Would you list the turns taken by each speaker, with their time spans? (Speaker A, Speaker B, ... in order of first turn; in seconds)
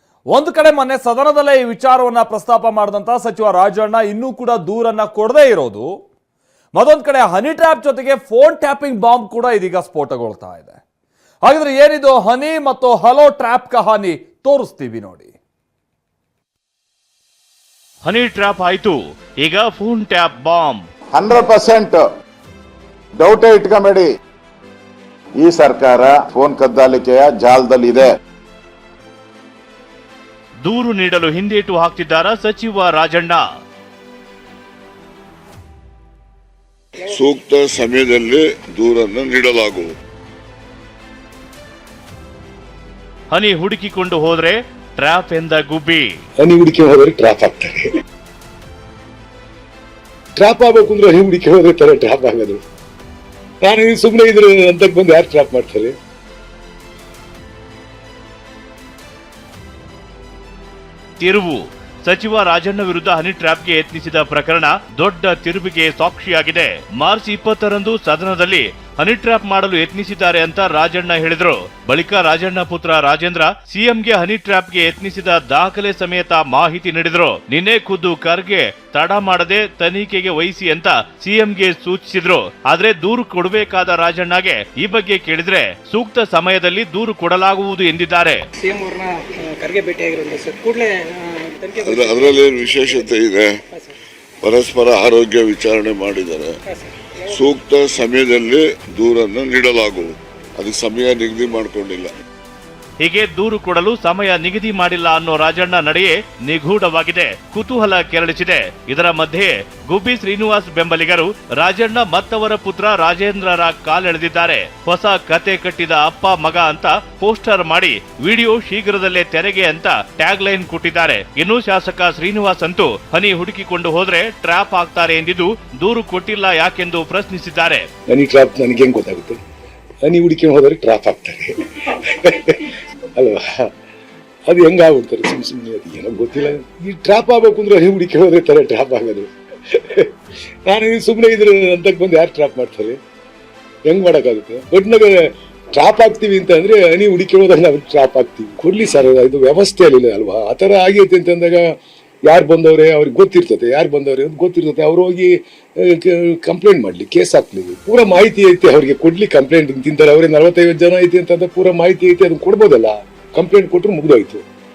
Speaker A: 0.3-6.0, 6.7-10.8, 11.4-15.3
Speaker B: 18.0-20.8, 30.6-33.4, 43.3-46.1, 61.2-88.4, 103.0-127.9
Speaker C: 21.1-22.0, 23.2-24.1, 25.4-28.1
Speaker D: 37.0-39.9, 91.8-93.6, 94.4-96.5, 97.3-102.1
Speaker E: 46.4-47.9, 50.4-52.6, 53.6-56.0, 128.1-129.4, 130.0-133.7, 134.5-140.1, 140.7-143.0, 143.9-151.7, 152.2-164.4
Speaker F: 88.6-93.1, 96.7-97.1